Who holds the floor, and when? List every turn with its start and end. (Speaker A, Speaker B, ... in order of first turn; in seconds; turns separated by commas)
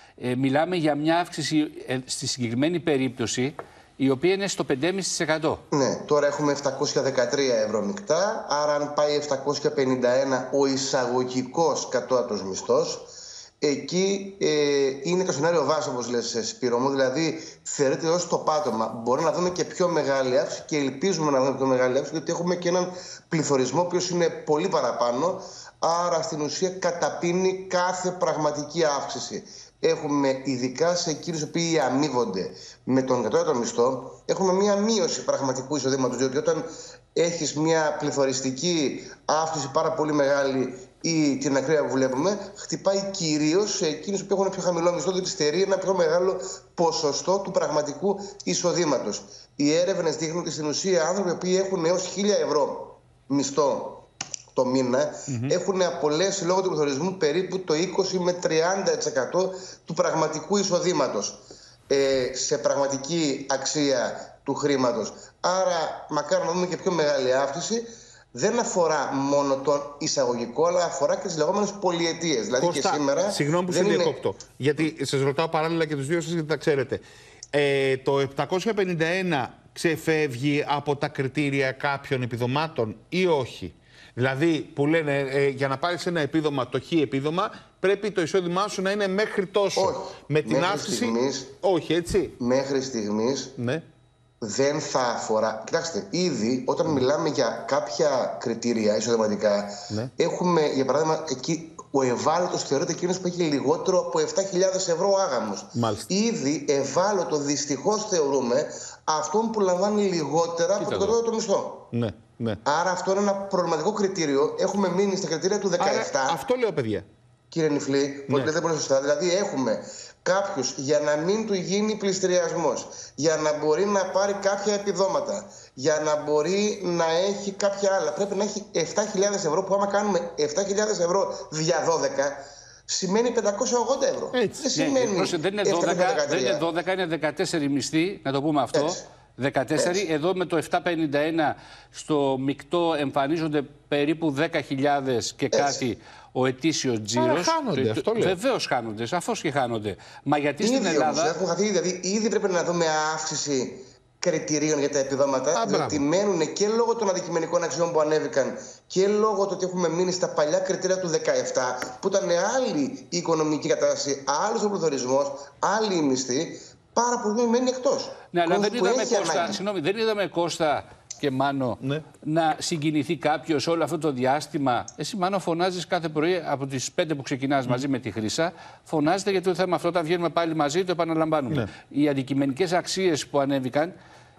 Speaker A: 0.2-5.6, Speaker B: 5.7-13.1, Speaker B: 13.6-74.2, Speaker C: 55.3-55.5, Speaker C: 72.6-92.3, Speaker B: 89.7-91.5, Speaker B: 92.4-93.5, Speaker C: 93.6-93.8, Speaker B: 94.4-111.8, Speaker C: 105.8-106.0, Speaker A: 110.8-111.2, Speaker C: 111.9-112.6, Speaker B: 112.6-116.4, Speaker C: 115.8-117.0, Speaker B: 117.5-132.3, Speaker B: 132.9-136.6, Speaker C: 134.3-134.6, Speaker A: 134.7-151.3, Speaker B: 138.7-139.0, Speaker B: 139.8-140.0, Speaker B: 145.5-145.8, Speaker C: 147.2-148.3, Speaker B: 150.6-169.6, Speaker C: 155.6-156.0, Speaker A: 168.3-183.9